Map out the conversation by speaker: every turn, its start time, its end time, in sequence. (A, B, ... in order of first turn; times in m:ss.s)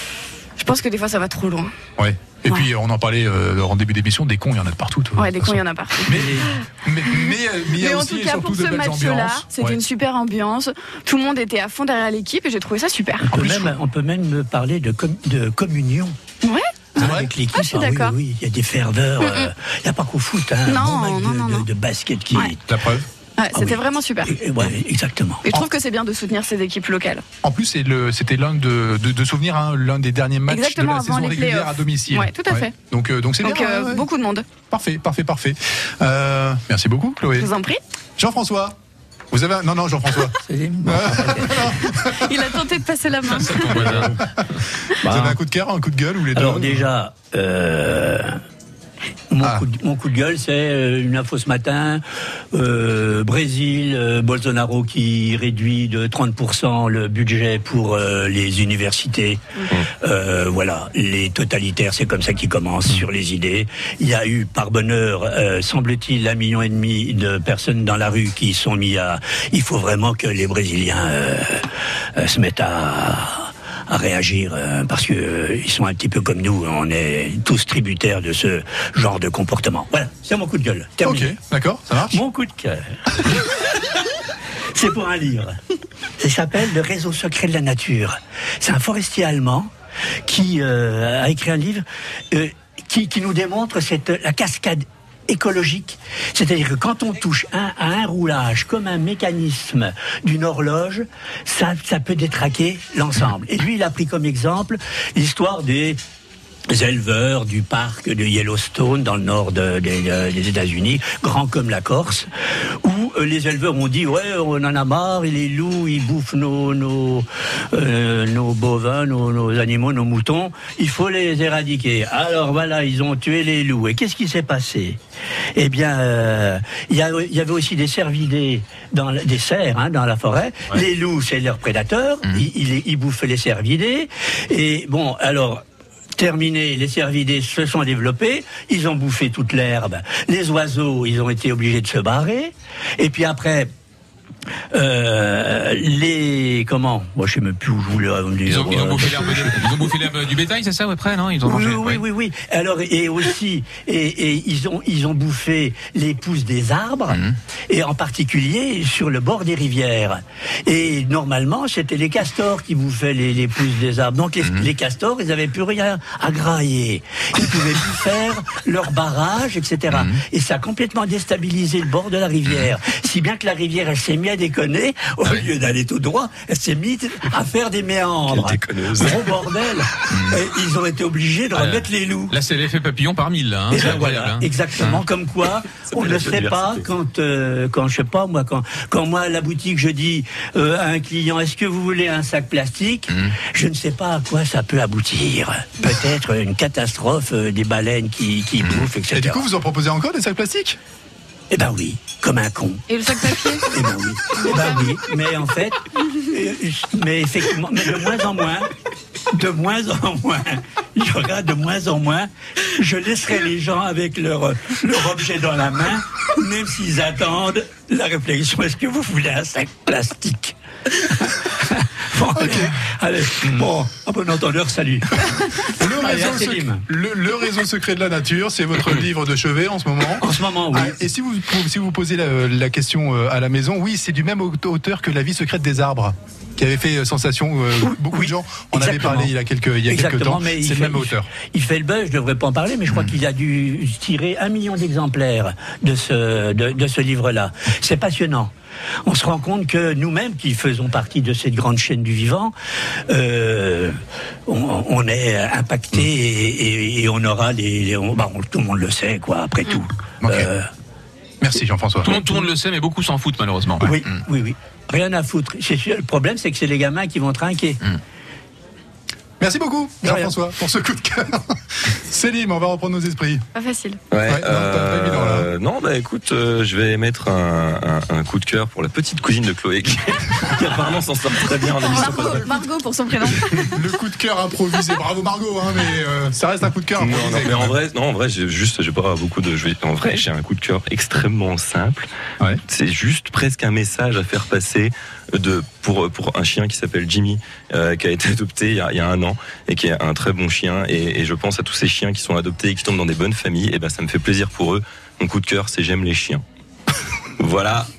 0:00.6-0:01.7 A
0:02.0-0:09.8 B
0:05.2-0:06.5 A
0:06.1-0:06.5 C
0:07.1-0:13.7 A
0:13.3-0:13.7 B
0:13.3-0:16.2 C
0:16.9-0:22.6 C
0:17.0-0:17.3 B
0:17.5-0:18.2 A
0:19.2-0:19.5 A
0:20.7-0:21.7 A
0:22.7-0:23.1 B
0:23.4-0:24.3 A
0:23.5-0:25.5 C
0:25.4-0:27.2 A
0:27.4-0:34.1 B
0:30.5-0:32.7 A
0:33.4-0:34.5 A
0:34.7-0:37.5 B
0:37.4-0:37.8 A
0:38.2-0:38.8 B
0:39.3-0:42.2 B
0:40.4-0:41.8 C
0:42.0-0:44.0 A
0:43.3-0:44.6 D
0:43.9-0:44.4 B
0:45.0-0:45.4 C
0:45.0-0:46.9 B
0:46.3-0:48.4 C
0:49.3-1:21.3 C
0:49.4-0:49.7 B
1:21.0-1:22.2 B
1:22.1-1:23.8 C
1:24.7-1:25.6 C
1:26.2-1:29.7 C
1:30.2-1:46.0 C
1:46.7-2:05.0 C
2:05.5-2:15.6 C
2:16.2-2:23.7 C
2:24.7-2:29.6 C
2:28.4-2:32.0 D
2:31.4-3:02.3 C
2:37.1-2:37.4 D
2:44.4-2:44.7 D
2:49.9-2:50.2 D
2:58.3-2:59.3 E
3:00.1-3:00.5 D
3:01.5-3:05.0 D
3:03.7-3:19.5 C
3:05.8-3:06.8 E
3:13.1-3:13.3 D
3:19.1-3:20.8 B
3:21.5-3:28.7 C
3:22.9-3:23.7 A
3:24.3-3:24.8 A
3:29.3-3:46.8 C
3:42.3-3:42.8 B
3:45.3-4:01.3 B
3:50.2-3:51.0 C
3:57.8-3:59.3 C
3:59.8-4:08.5 C
4:09.0-4:12.5 C
4:13.1-4:20.7 C
4:20.2-4:20.5 B
4:21.4-4:22.3 B
4:22.0-4:24.2 D
4:23.8-4:27.8 C
4:29.4-4:33.4 B
4:30.0-4:30.3 C
4:33.5-4:34.0 A
4:34.1-4:42.5 E
4:34.3-4:35.5 B
4:41.8-4:43.8 A
4:43.5-4:47.8 B
4:47.0-4:52.1 E
4:52.7-5:06.4 E
5:07.4-5:07.9 E